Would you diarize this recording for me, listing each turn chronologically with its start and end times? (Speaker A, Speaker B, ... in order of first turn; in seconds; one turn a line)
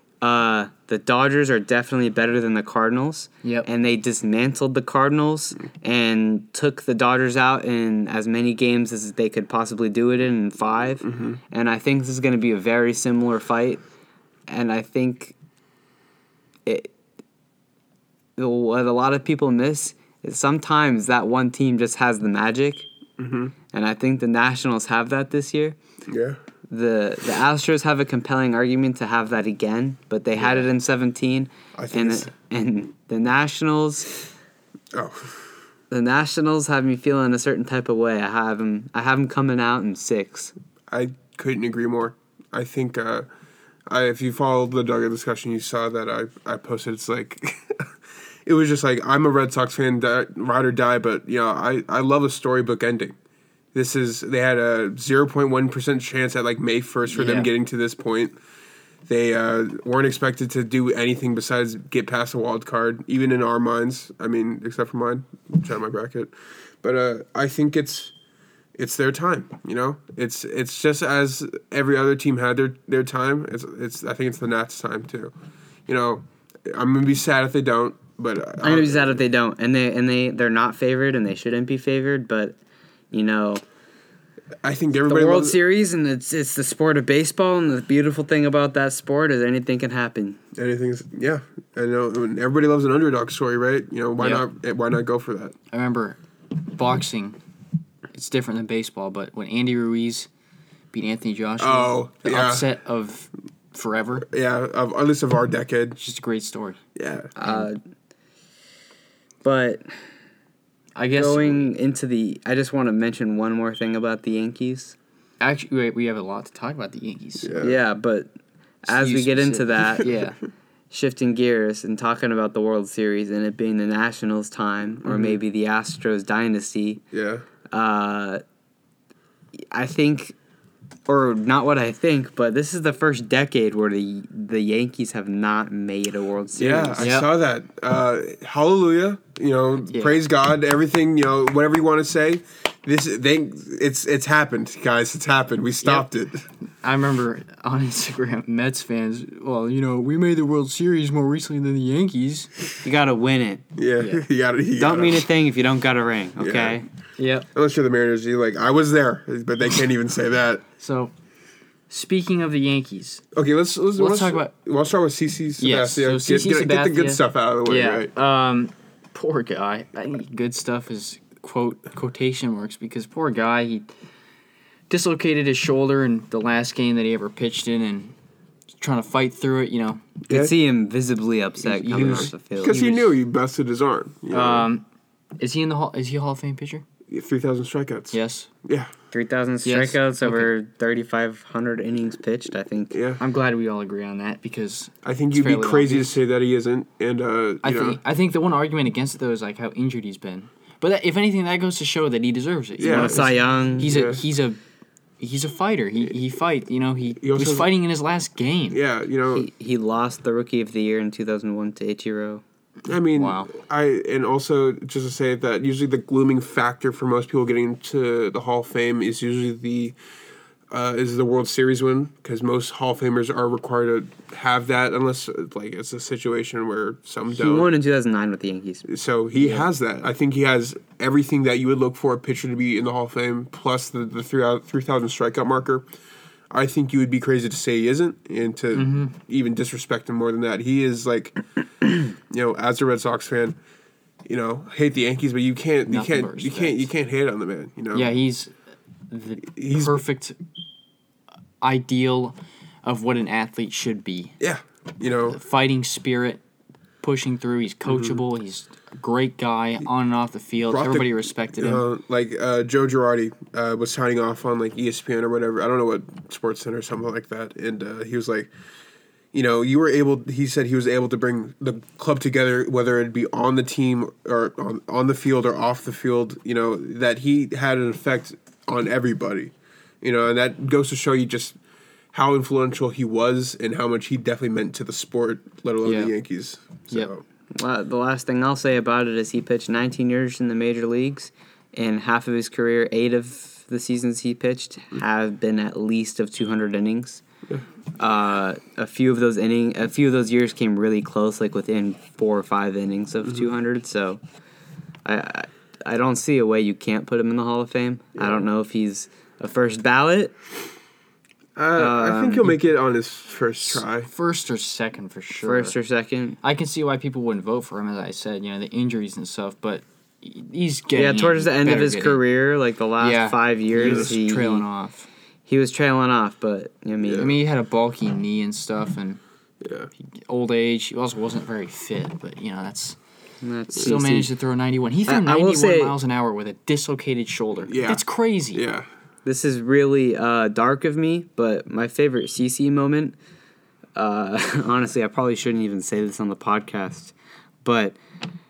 Speaker A: 0.2-13.8
Speaker B: 11.0-11.4
Speaker A: 14.5-15.3
Speaker A: 16.7-16.9
Speaker A: 18.4-22.9
Speaker B: 23.2-23.5
Speaker A: 23.7-25.8
Speaker B: 26.1-26.4
Speaker A: 26.7-34.1
Speaker C: 30.4-30.6
Speaker B: 31.8-32.3
Speaker B: 34.9-35.4
Speaker A: 35.9-40.5
Speaker B: 40.9-43.3
Speaker B: 43.9-47.9
Speaker B: 48.5-53.2
Speaker B: 53.7-58.4
Speaker C: 57.1-57.5
Speaker B: 59.1-68.1
Speaker B: 68.8-75.3
Speaker B: 75.9-79.2
Speaker A: 78.6-82.6
Speaker A: 83.1-83.6
Speaker B: 84.6-85.6
Speaker A: 85.1-90.4
Speaker B: 90.5-95.5
Speaker C: 95.7-97.4
Speaker C: 98.1-100.3
Speaker C: 100.9-104.3
Speaker B: 101.6-102.7
Speaker B: 104.3-106.0
Speaker C: 106.0-106.8
Speaker B: 107.0-107.3
Speaker A: 107.4-107.8
Speaker A: 109.4-110.0
Speaker C: 111.0-111.7
Speaker A: 111.1-115.0
Speaker C: 115.4-117.6
Speaker B: 117.4-117.8
Speaker A: 117.6-118.3
Speaker A: 118.8-120.3
Speaker C: 118.9-120.4
Speaker A: 120.9-127.0
Speaker B: 125.0-125.4
Speaker B: 127.1-127.5
Speaker A: 127.7-128.4
Speaker A: 129.7-130.3
Speaker A: 131.1-137.1
Speaker B: 136.6-146.4
Speaker C: 137.0-137.3
Speaker C: 139.9-140.2
Speaker C: 146.8-152.6
Speaker A: 152.8-153.7
Speaker B: 153.8-155.2
Speaker C: 154.0-154.3
Speaker A: 154.8-156.8
Speaker B: 156.4-156.8
Speaker C: 157.2-157.5
Speaker B: 157.5-160.6
Speaker C: 160.8-161.1
Speaker C: 161.9-163.2
Speaker B: 163.3-168.1
Speaker C: 164.0-164.5
Speaker C: 165.6-173.9
Speaker C: 174.9-178.1
Speaker C: 178.8-180.1
Speaker A: 180.3-183.2
Speaker C: 181.6-182.3
Speaker B: 181.9-184.7
Speaker C: 184.3-184.8
Speaker C: 185.4-186.8
Speaker B: 187.1-188.9
Speaker C: 188.1-188.5
Speaker A: 189.1-192.9
Speaker C: 189.7-190.5
Speaker B: 192.9-193.2
Speaker C: 193.2-196.2
Speaker B: 195.0-198.0
Speaker C: 197.6-204.6
Speaker B: 202.8-203.3
Speaker A: 202.9-204.0
Speaker B: 203.8-204.2
Speaker C: 205.2-208.8
Speaker B: 207.2-207.7
Speaker B: 208.7-209.5
Speaker A: 209.3-212.4
Speaker B: 212.9-219.9
Speaker C: 213.1-213.5
Speaker B: 220.7-227.7
Speaker A: 227.3-229.7
Speaker B: 228.9-235.8
Speaker B: 236.5-241.4
Speaker C: 238.7-239.1
Speaker B: 242.3-243.6
Speaker B: 244.3-248.1
Speaker C: 245.9-246.9
Speaker C: 247.9-248.5
Speaker C: 249.1-250.4
Speaker B: 249.6-250.0
Speaker C: 251.6-254.4
Speaker B: 254.4-255.4
Speaker C: 255.3-256.4
Speaker C: 257.0-261.8
Speaker B: 257.9-258.2
Speaker B: 260.7-268.5
Speaker B: 269.3-281.6
Speaker B: 282.1-287.2
Speaker C: 285.9-286.1
Speaker A: 287.5-297.2
Speaker A: 298.0-304.2
Speaker A: 305.1-310.3
Speaker B: 311.6-314.1
Speaker A: 311.8-312.5
Speaker C: 313.7-315.8
Speaker A: 315.4-316.4
Speaker C: 316.4-322.2
Speaker A: 320.9-324.7
Speaker C: 323.0-325.1
Speaker B: 323.8-324.1
Speaker A: 325.5-327.3
Speaker B: 327.0-327.3
Speaker C: 327.1-329.2
Speaker B: 329.6-329.9
Speaker C: 330.1-333.0
Speaker A: 333.4-334.3
Speaker C: 333.8-338.6
Speaker A: 335.1-336.0
Speaker B: 337.7-338.9
Speaker A: 339.2-343.2
Speaker A: 344.0-348.0